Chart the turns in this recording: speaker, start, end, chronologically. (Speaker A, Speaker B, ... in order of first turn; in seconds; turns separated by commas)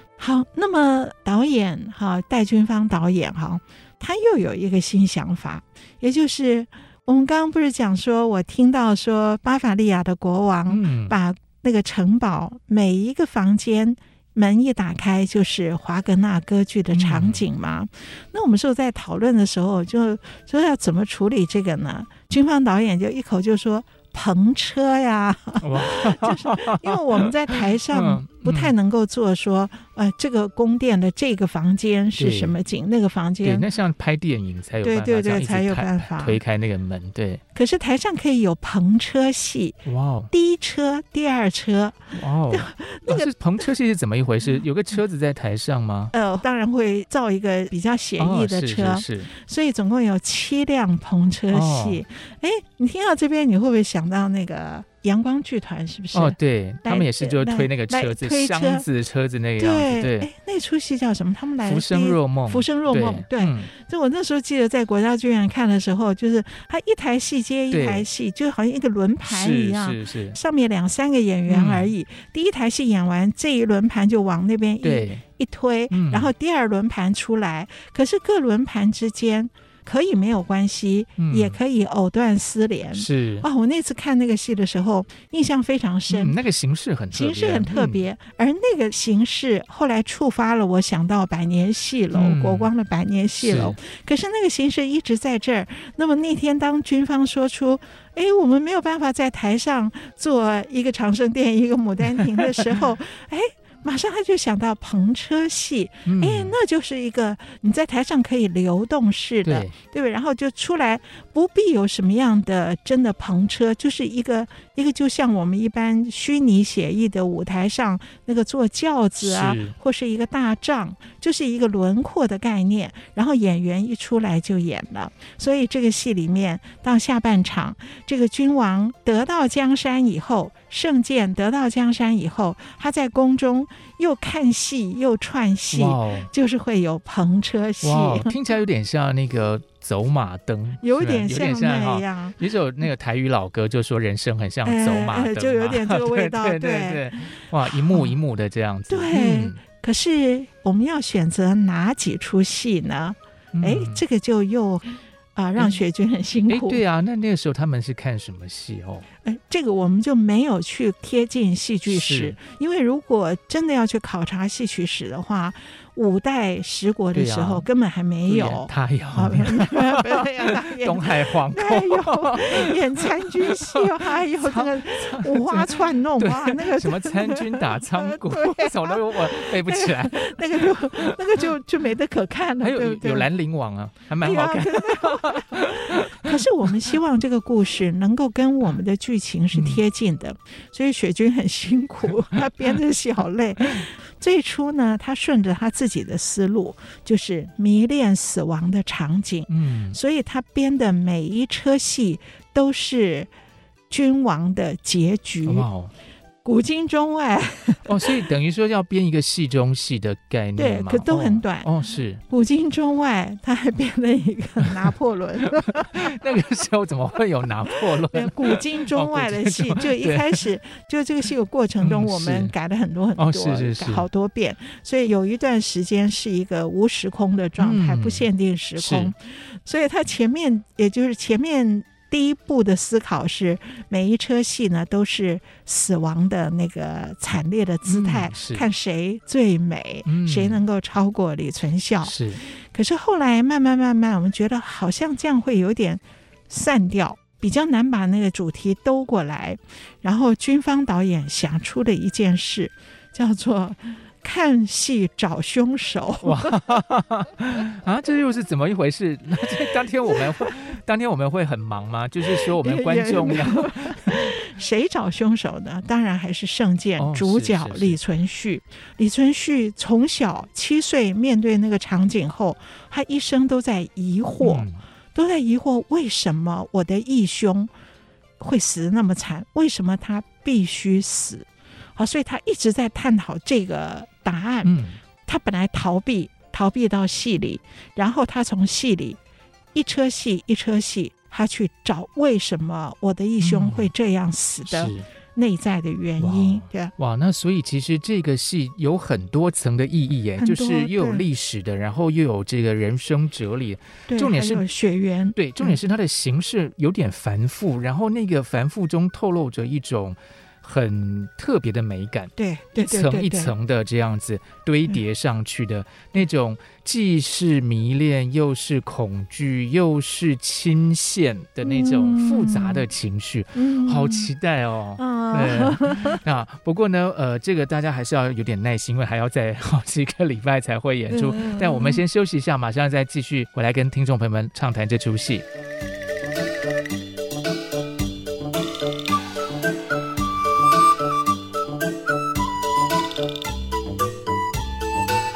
Speaker A: 0.2-33.6, Speaker B: 10.7-11.2, Speaker B: 16.9-17.4, Speaker B: 25.6-28.7, Speaker B: 32.2-32.6, Speaker B: 33.4-37.4, Speaker A: 34.8-36.4, Speaker A: 37.5-43.3, Speaker B: 39.9-40.3, Speaker B: 42.1-46.1, Speaker A: 46.1-58.9, Speaker B: 48.2-49.3, Speaker B: 51.5-52.0, Speaker B: 56.1-60.3, Speaker A: 59.6-86.3, Speaker B: 61.6-63.7, Speaker B: 67.7-68.1, Speaker B: 69.2-70.4, Speaker B: 71.5-71.9, Speaker B: 74.8-75.2, Speaker B: 75.9-76.3, Speaker B: 81.2-81.6, Speaker B: 82.9-83.5, Speaker B: 86.1-88.0, Speaker A: 87.1-138.3, Speaker B: 92.1-92.7, Speaker B: 93.4-93.8, Speaker B: 102.1-102.8, Speaker B: 106.1-106.6, Speaker B: 109.5-109.7, Speaker B: 119.2-119.8, Speaker B: 135.7-136.3, Speaker B: 137.8-149.6, Speaker A: 140.8-142.4, Speaker A: 144.7-148.1, Speaker A: 148.9-156.8, Speaker B: 153.5-154.0, Speaker B: 156.5-159.1, Speaker A: 159.2-183.3, Speaker B: 161.9-162.4, Speaker B: 167.1-167.7, Speaker B: 168.3-181.2, Speaker B: 182.6-186.9, Speaker A: 184.2-203.3, Speaker B: 189.5-189.8, Speaker B: 199.5-200.0, Speaker A: 203.9-205.7, Speaker B: 205.4-205.9, Speaker A: 206.4-208.1, Speaker B: 207.9-212.2, Speaker A: 210.6-211.7, Speaker A: 212.3-216.1, Speaker B: 215.8-220.4, Speaker A: 218.0-256.6, Speaker B: 221.8-222.5, Speaker B: 223.2-224.1, Speaker B: 227.6-229.1, Speaker B: 237.9-238.7, Speaker B: 240.1-240.6, Speaker B: 242.0-242.4, Speaker B: 256.2-264.3, Speaker A: 262.4-277.7, Speaker B: 267.0-268.0, Speaker B: 274.4-274.8, Speaker A: 278.4-289.2, Speaker B: 284.6-285.0, Speaker A: 289.8-296.9, Speaker B: 293.4-293.9, Speaker B: 294.7-295.1, Speaker B: 296.2-304.6, Speaker A: 300.4-301.2, Speaker A: 304.1-305.8, Speaker B: 305.4-335.4, Speaker A: 312.4-313.5, Speaker A: 321.6-322.9, Speaker A: 323.6-324.3, Speaker A: 325.0-326.2, Speaker A: 331.1-332.0